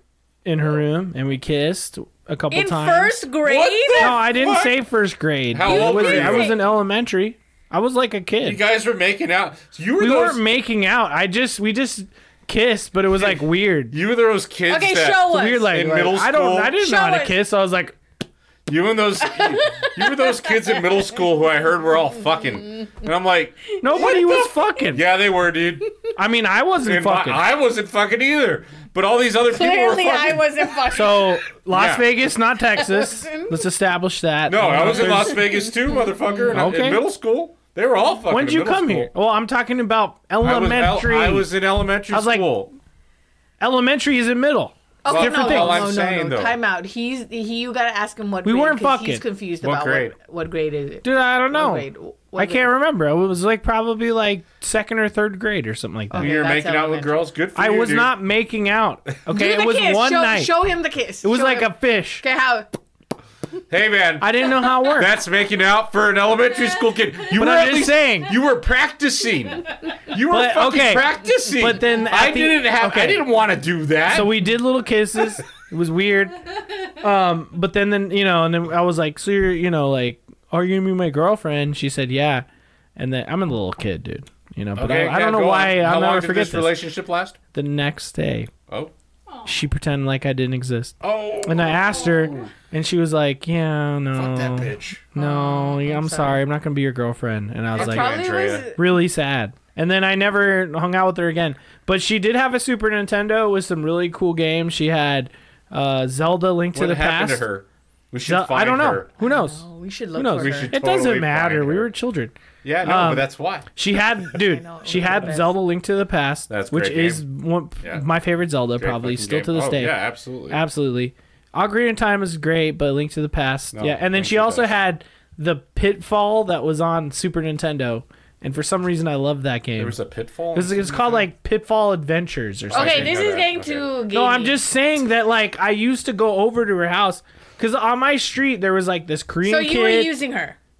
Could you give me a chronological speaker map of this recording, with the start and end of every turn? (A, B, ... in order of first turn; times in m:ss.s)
0:00.4-0:03.1 A
0:02.5-0:04.2 B
0:03.4-0:04.8 C
0:04.0-0:08.6 A
0:05.5-0:06.6 C
0:05.6-0:06.6 B
0:08.4-0:10.4 C
0:10.0-0:13.9 A
0:13.1-0:16.8 C
0:14.7-0:15.7 B
0:15.3-0:18.0 A
0:16.8-0:17.4 B
0:18.7-0:24.2 C
0:19.2-0:21.0 B
0:23.8-0:25.0 A
0:23.8-0:24.8 B
0:24.9-0:25.9 C
0:26.2-0:27.4 A
0:26.8-0:30.5 C
0:29.5-0:31.4 B
0:30.9-0:35.4 A
0:31.7-0:32.1 C
0:32.8-0:33.6 B
0:34.4-0:39.1 C
0:34.8-0:36.4 B
0:36.5-0:37.0 A
0:38.3-0:41.5 A
0:40.4-0:42.7 C
0:42.1-0:42.5 A
0:43.6-0:45.9 A
0:45.0-0:52.7 B
0:45.1-0:46.6 C
0:48.4-0:49.2 A
0:49.6-0:50.1 C
0:51.0-0:56.3 A
0:56.1-0:57.2 B
0:56.1-0:58.2 C
0:57.6-1:00.5 A
0:59.3-1:02.7 B
1:01.2-1:02.2 A
1:03.7-1:14.5 C
1:04.2-1:05.1 A
1:07.3-1:08.3 A
1:10.3-1:13.2 A
1:14.1-1:16.4 A
1:17.0-1:26.8 A
1:24.8-1:27.4 C
1:27.5-1:28.5 A
1:29.5-1:38.2 A
1:31.0-1:32.5 C
1:34.2-1:35.0 C
1:35.1-1:36.4 B
1:37.7-1:38.6 C
1:37.7-1:38.9 B
1:38.7-1:47.4 A
1:46.7-1:49.1 C
1:48.2-1:49.6 A
1:49.2-1:50.7 B
1:50.1-2:00.0 A
1:50.4-1:51.9 C
1:52.6-1:53.7 C
1:54.3-1:55.6 B
1:56.5-1:57.2 C
1:57.8-1:58.0 C
1:58.8-2:00.6 C
2:00.5-2:10.0 A
2:03.7-2:04.7 C
2:09.8-2:11.3 C
2:10.5-2:13.2 A
2:12.7-2:13.8 C
2:12.7-2:14.6 B
2:14.1-2:20.1 A
2:19.4-2:20.6 B